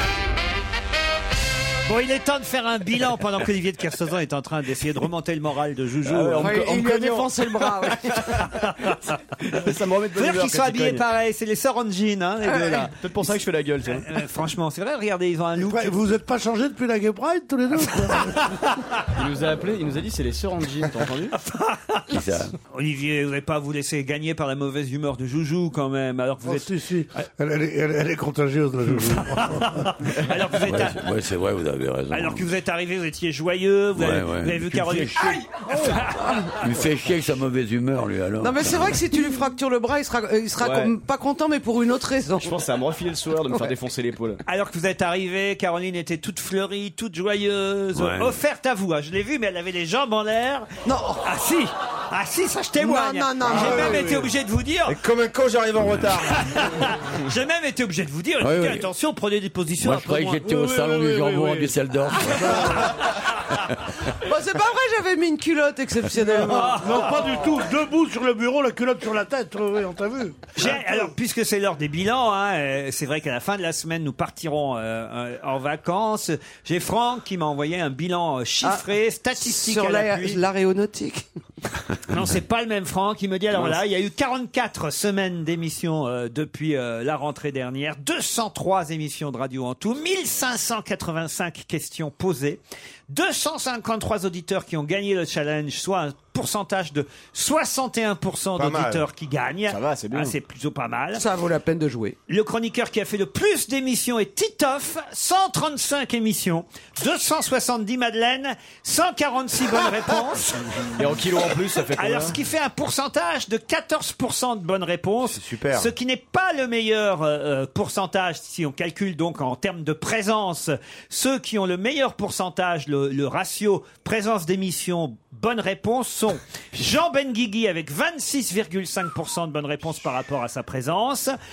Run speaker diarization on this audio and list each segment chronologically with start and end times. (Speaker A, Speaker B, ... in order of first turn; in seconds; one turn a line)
Speaker A: 1.9-6.5
Speaker B: 6.0-8.4
Speaker C: 6.4-8.4
Speaker A: 8.5-9.0
Speaker B: 9.4-11.0
Speaker A: 10.1-12.9
Speaker B: 12.8-14.1
Speaker A: 13.9-16.0
Speaker D: 15.6-18.6
Speaker A: 18.5-18.9
Speaker B: 19.1-21.3
Speaker A: 21.3-26.7
Speaker E: 22.1-22.5
Speaker D: 26.4-29.9
Speaker A: 29.3-31.0
Speaker E: 30.6-32.5
Speaker A: 32.1-36.5
Speaker E: 34.0-35.4
Speaker E: 36.5-39.0
Speaker C: 38.4-42.6
Speaker B: 40.6-40.9
Speaker B: 42.4-44.4
Speaker A: 44.4-50.7
Speaker E: 47.9-48.3
Speaker C: 50.8-51.2
Speaker A: 51.2-55.0
Speaker C: 52.8-54.2
Speaker F: 53.5-54.3
Speaker F: 54.9-56.9
Speaker A: 56.3-60.5
Speaker E: 58.4-58.9
Speaker E: 59.8-62.9
Speaker D: 60.4-62.9
Speaker C: 62.3-62.8
Speaker C: 64.2-67.0
Speaker A: 66.4-67.4
Speaker D: 66.5-70.5
Speaker A: 70.5-80.4
Speaker C: 79.3-81.2
Speaker A: 82.1-101.2
Speaker F: 98.5-99.0
Speaker B: 99.7-100.3
Speaker C: 101.1-102.2
Speaker A: 102.3-110.6
Speaker B: 111.0-112.4
Speaker A: 111.9-131.3
Speaker F: 115.2-115.9